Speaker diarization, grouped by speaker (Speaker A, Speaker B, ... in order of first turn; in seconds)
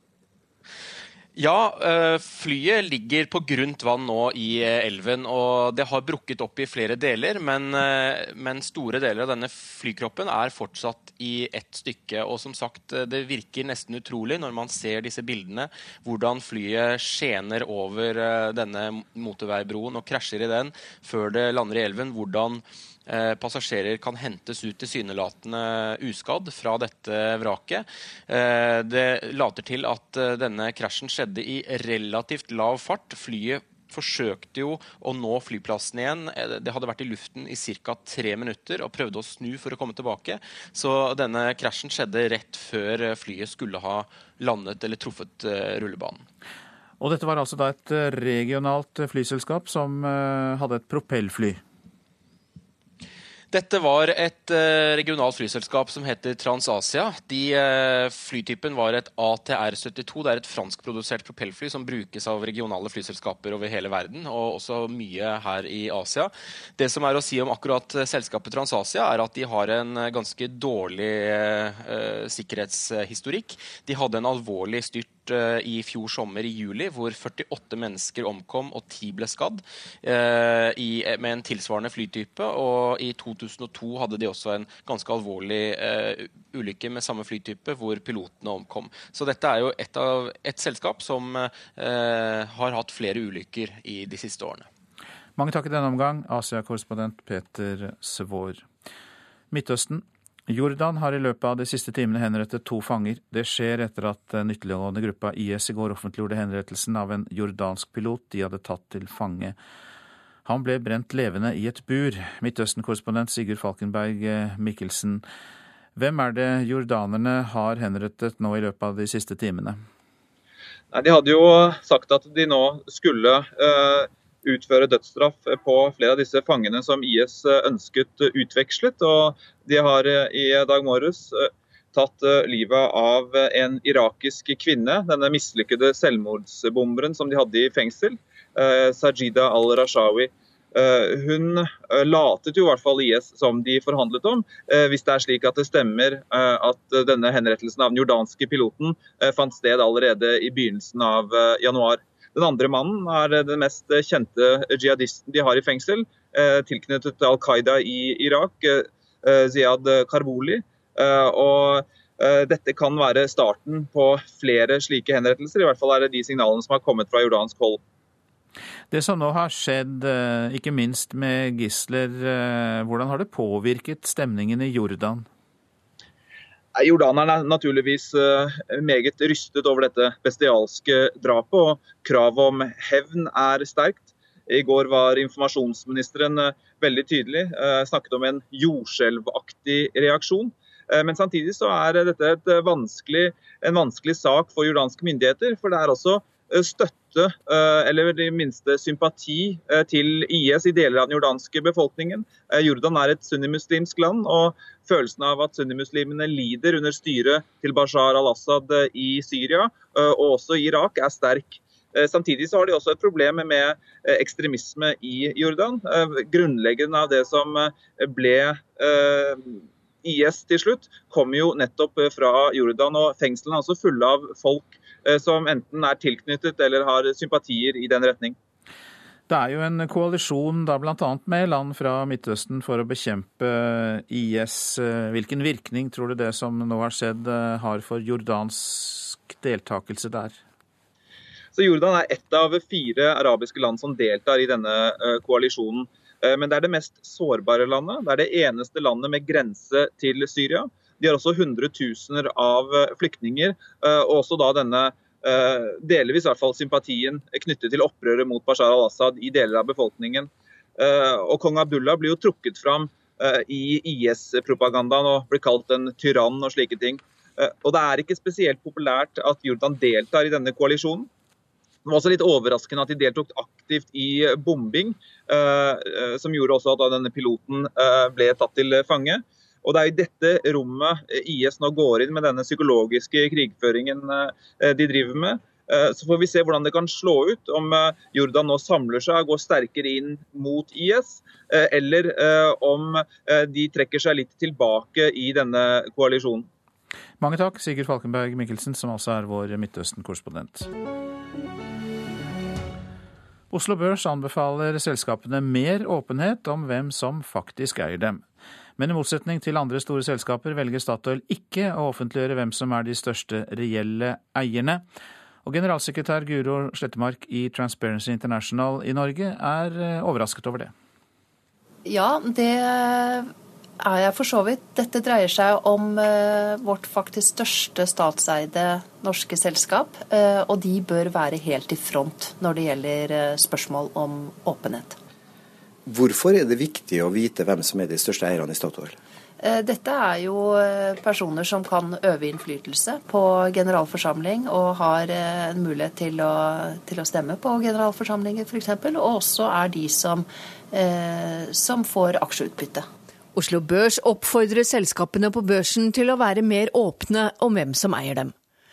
Speaker A: 1.4-46.2, 53.5-94.7
Speaker B: 47.0-51.6, 95.4-98.6, 99.5-109.5, 110.4-115.2, 116.0-119.8, 168.9-175.2, 229.3-240.4, 297.2-300.7, 303.5-308.2, 308.8-314.8, 315.4-320.7
Speaker C: 120.9-131.4, 131.9-167.8, 176.8-228.3, 241.5-271.1, 271.9-296.5
Speaker D: 321.8-323.3, 323.8-334.9, 339.4-352.9
Speaker E: 335.9-339.0
Speaker F: 353.4-358.3